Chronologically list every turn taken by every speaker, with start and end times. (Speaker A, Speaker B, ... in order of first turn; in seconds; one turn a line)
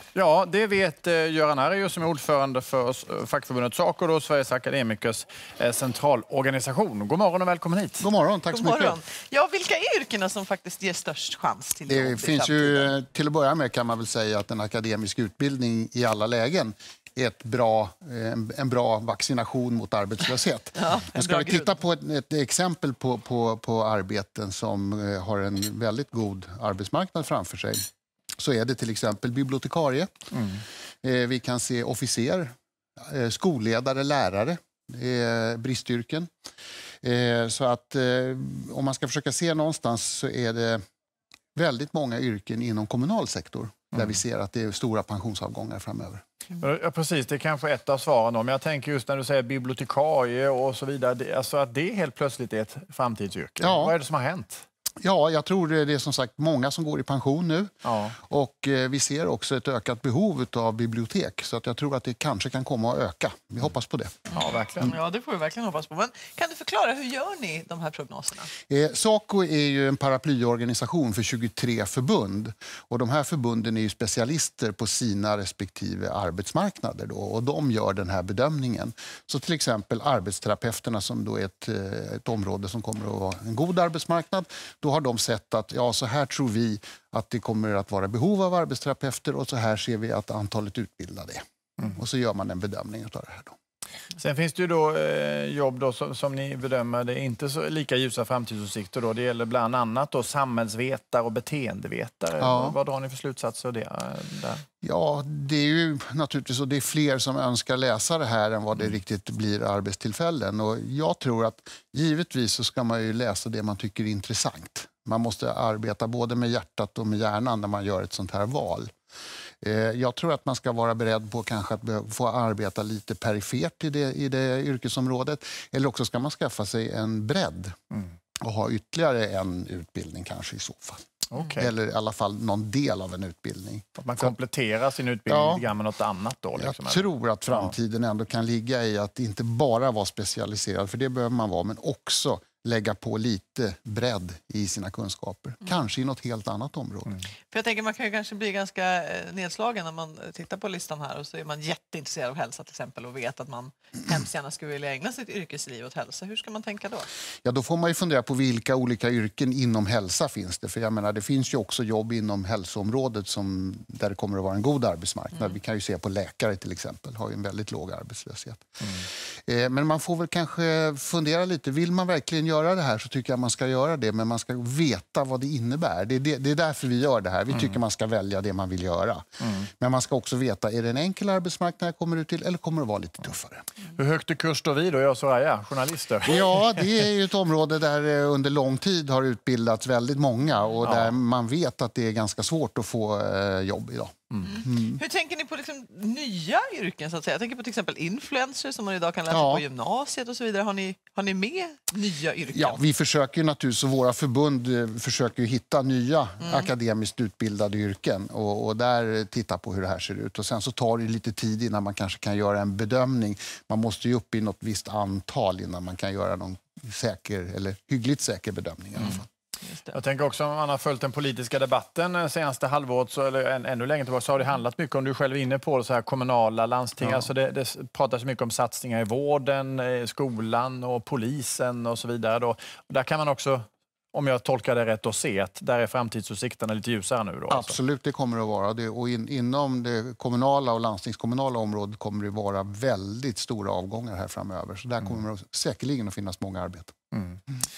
Speaker A: 0.1-8.1
Speaker B: 8.0-9.0
Speaker C: 8.5-12.9
Speaker B: 11.9-27.9
Speaker C: 20.8-21.8
Speaker B: 28.4-30.1
Speaker A: 30.3-30.6
Speaker B: 31.0-36.3
Speaker B: 37.0-40.8
Speaker B: 41.5-46.2
Speaker A: 46.6-54.7
Speaker B: 53.6-54.0
Speaker B: 55.0-64.2
Speaker A: 57.8-58.1
Speaker A: 64.3-65.0
Speaker C: 64.8-68.5
Speaker B: 68.7-93.5
Speaker A: 94.2-104.7
Speaker B: 102.4-102.8
Speaker B: 104.8-118.9
Speaker B: 119.6-127.8
Speaker B: 128.4-134.3
Speaker A: 131.3-131.7
Speaker A: 134.0-137.7
Speaker B: 135.3-135.7
Speaker B: 136.6-147.2
Speaker C: 147.5-157.1
Speaker B: 157.4-183.7
Speaker A: 183.9-186.8
Speaker B: 186.3-195.0
Speaker A: 190.8-191.2
Speaker C: 194.4-202.8
Speaker B: 199.3-199.6
Speaker B: 202.5-219.3
Speaker C: 206.4-206.7
Speaker C: 219.7-220.0
Speaker A: 219.9-237.8
Speaker B: 227.0-227.3
Speaker B: 237.5-246.9
Speaker A: 247.1-247.4